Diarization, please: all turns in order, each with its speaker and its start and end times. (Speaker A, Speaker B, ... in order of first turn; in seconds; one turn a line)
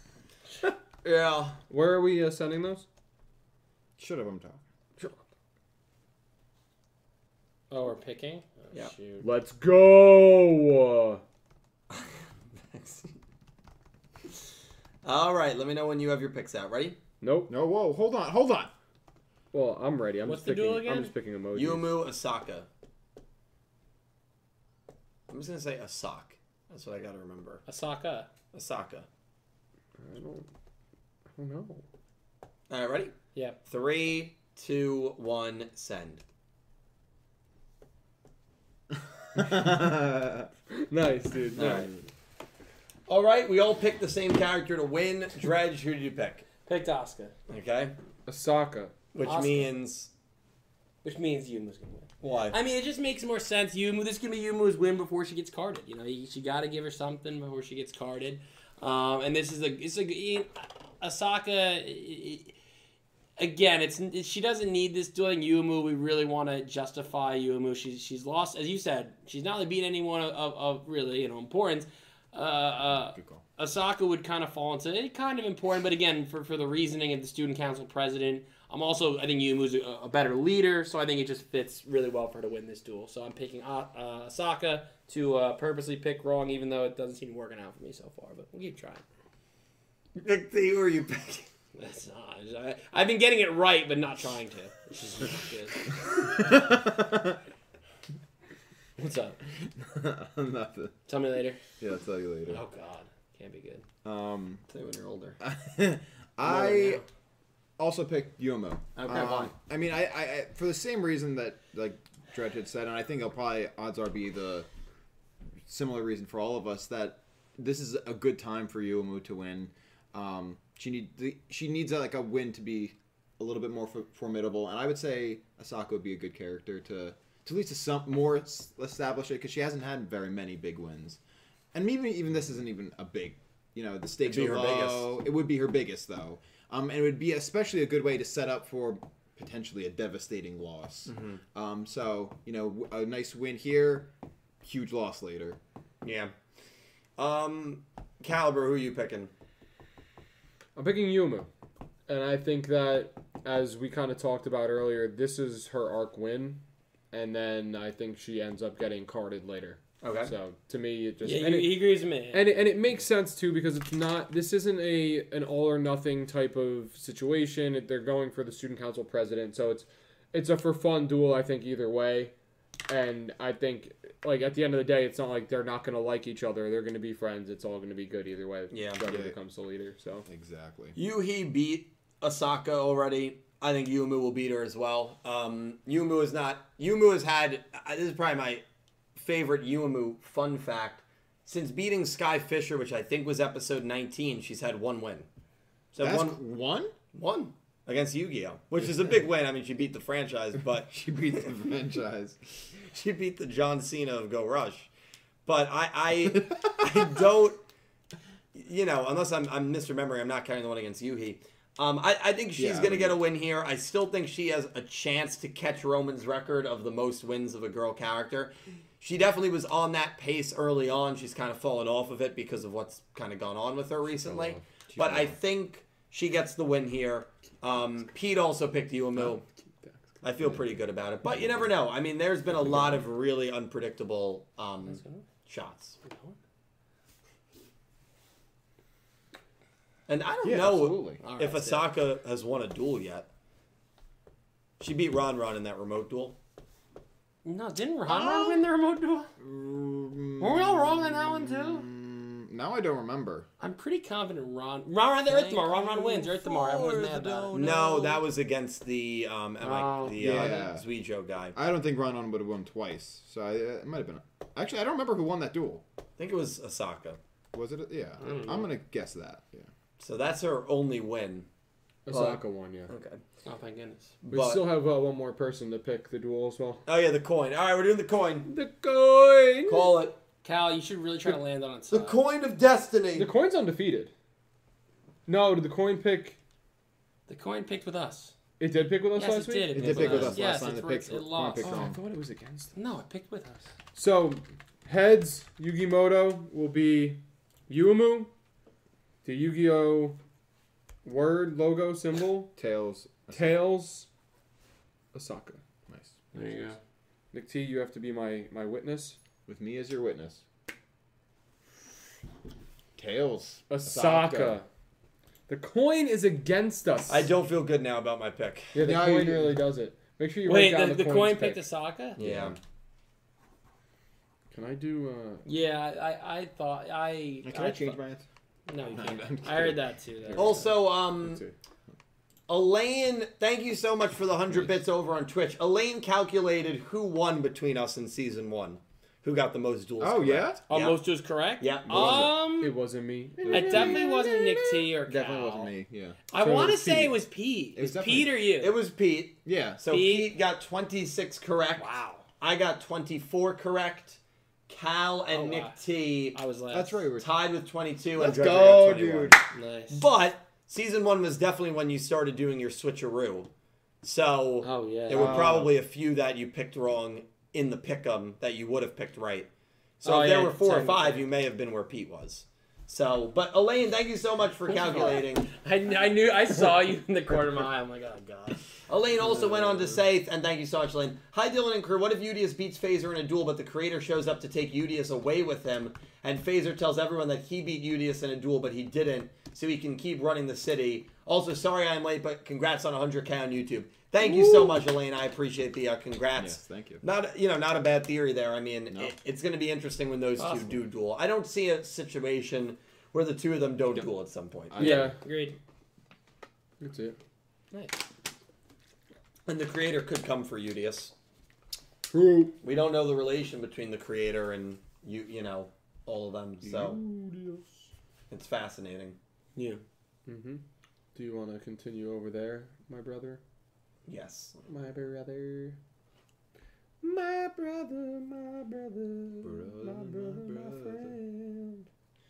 Speaker A: 1.0-1.6
Speaker B: 1.7-2.9
Speaker C: 4.0-4.6
Speaker D: 7.7-9.3
Speaker B: 9.2-11.2
Speaker A: 11.9-13.2
Speaker A: 15.0-17.0
Speaker B: 17.2-17.5
Speaker C: 17.5-18.7
Speaker B: 19.5-22.0
Speaker D: 20.3-21.1
Speaker A: 21.6-22.7
Speaker A: 25.3-27.6
Speaker D: 27.7-28.3
Speaker A: 28.5-29.1
Speaker B: 30.0-30.5
Speaker B: 31.4-31.8
Speaker A: 32.7-33.1
Speaker A: 33.7-36.2
Speaker C: 39.3-40.5
Speaker B: 40.7-41.9
Speaker A: 41.5-41.9
Speaker C: 41.6-42.0
Speaker A: 43.1-46.5
Speaker D: 46.7-47.3
Speaker A: 47.5-48.0
Speaker B: 48.3-48.9
Speaker A: 49.1-50.1
Speaker D: 49.2-49.7
Speaker D: 51.0-62.5
Speaker A: 52.2-52.6
Speaker D: 63.4-89.0
Speaker C: 73.1-73.4
Speaker A: 90.2-91.5
Speaker D: 91.8-95.9
Speaker C: 96.2-97.4
Speaker D: 99.0-99.4
Speaker C: 99.7-100.9
Speaker D: 101.1-101.6
Speaker C: 101.8-102.6
Speaker D: 102.5-103.8
Speaker C: 104.0-104.6
Speaker A: 104.7-105.4
Speaker C: 105.4-107.0
Speaker D: 106.4-107.0
Speaker C: 107.8-114.7
Speaker A: 109.0-109.5
Speaker C: 115.7-131.2
Speaker C: 131.7-144.1
Speaker A: 134.2-135.1
Speaker A: 141.1-141.4
Speaker C: 144.6-145.6
Speaker A: 146.0-146.3
Speaker A: 147.2-149.3
Speaker B: 150.8-151.5
Speaker B: 152.1-172.3
Speaker A: 160.0-160.3
Speaker D: 161.2-162.6
Speaker B: 172.9-180.3
Speaker A: 178.7-179.0
Speaker C: 179.1-179.3
Speaker C: 180.3-181.0
Speaker A: 181.0-188.6
Speaker A: 189.2-195.3
Speaker A: 195.9-196.4
Speaker C: 196.0-196.9
Speaker A: 197.1-201.4
Speaker C: 200.9-202.7
Speaker A: 202.8-204.9
Speaker A: 205.5-207.6
Speaker C: 206.3-206.8
Speaker A: 208.5-229.4
Speaker C: 212.6-213.2
Speaker C: 224.9-225.4
Speaker B: 229.2-229.9
Speaker A: 230.2-236.0
Speaker C: 230.4-230.7
Speaker C: 231.3-231.6
Speaker D: 234.8-235.2
Speaker D: 236.0-236.4
Speaker A: 240.1-243.3
Speaker C: 240.4-241.2
Speaker D: 241.2-241.9
Speaker A: 244.8-246.4
Speaker D: 247.4-249.3
Speaker C: 248.1-248.6
Speaker C: 249.4-253.5
Speaker D: 250.4-251.9
Speaker D: 253.6-258.2
Speaker C: 257.0-257.5
Speaker A: 257.5-261.6
Speaker D: 259.6-260.6
Speaker C: 260.2-260.9
Speaker C: 261.5-265.8
Speaker A: 266.2-267.2
Speaker C: 267.5-269.7
Speaker D: 268.2-268.7
Speaker A: 270.0-271.5
Speaker B: 272.1-272.9
Speaker A: 272.1-273.2
Speaker D: 273.4-274.1
Speaker A: 274.2-274.6
Speaker B: 274.3-276.8
Speaker A: 276.9-278.5
Speaker B: 278.4-280.0
Speaker A: 279.7-280.2
Speaker D: 280.4-282.2
Speaker A: 281.9-283.3
Speaker B: 283.2-284.1
Speaker B: 285.3-286.4
Speaker D: 287.3-288.3
Speaker B: 288.6-290.4
Speaker D: 289.2-291.8
Speaker C: 289.7-292.0
Speaker B: 291.6-292.8
Speaker D: 292.8-293.7
Speaker B: 293.9-298.3
Speaker B: 299.2-300.2
Speaker B: 301.0-302.6
Speaker C: 302.6-303.6
Speaker B: 303.3-304.1
Speaker B: 305.1-305.6
Speaker C: 305.9-306.2
Speaker D: 306.3-306.8
Speaker B: 307.3-309.2
Speaker C: 309.5-310.4
Speaker C: 313.0-314.6
Speaker B: 313.7-314.7
Speaker B: 315.5-317.3
Speaker A: 317.1-318.8
Speaker B: 318.7-321.6
Speaker C: 318.8-319.6
Speaker D: 320.4-322.2
Speaker A: 322.2-322.6
Speaker C: 322.2-322.6
Speaker B: 324.5-325.4
Speaker D: 325.4-328.0
Speaker C: 327.4-328.2
Speaker D: 328.7-330.6
Speaker C: 328.9-329.8
Speaker B: 330.3-331.5
Speaker A: 330.4-331.4
Speaker A: 332.5-341.0
Speaker C: 340.0-340.6
Speaker D: 340.7-342.8
Speaker A: 341.6-342.4
Speaker C: 341.9-342.3
Speaker B: 342.5-344.0
Speaker C: 343.4-346.2
Speaker D: 343.5-345.7
Speaker D: 346.3-348.8
Speaker B: 346.3-347.2
Speaker C: 347.8-348.4
Speaker A: 348.6-356.4
Speaker C: 349.4-349.8
Speaker D: 349.9-350.3
Speaker D: 351.8-352.2
Speaker D: 355.3-355.8
Speaker D: 356.3-357.0
Speaker C: 356.7-357.3
Speaker A: 357.2-363.5
Speaker C: 358.2-359.4
Speaker D: 359.5-360.1
Speaker A: 364.0-369.5
Speaker D: 364.6-365.6
Speaker C: 365.1-365.7
Speaker A: 370.0-375.5
Speaker D: 370.0-371.2
Speaker D: 374.7-378.6
Speaker A: 378.9-405.1
Speaker D: 379.3-379.8
Speaker C: 396.4-397.0
Speaker D: 400.4-400.8
Speaker C: 404.7-405.1
Speaker B: 404.8-405.2
Speaker D: 404.8-405.6
Speaker B: 406.8-407.2
Speaker D: 407.7-408.0
Speaker A: 409.5-411.1
Speaker B: 412.1-412.6
Speaker A: 412.6-417.0
Speaker B: 416.6-417.7
Speaker A: 418.3-419.2
Speaker D: 419.6-419.8
Speaker B: 420.3-420.6
Speaker B: 421.1-423.4
Speaker A: 424.1-424.6
Speaker B: 424.7-425.8
Speaker B: 427.0-431.9
Speaker C: 429.4-431.2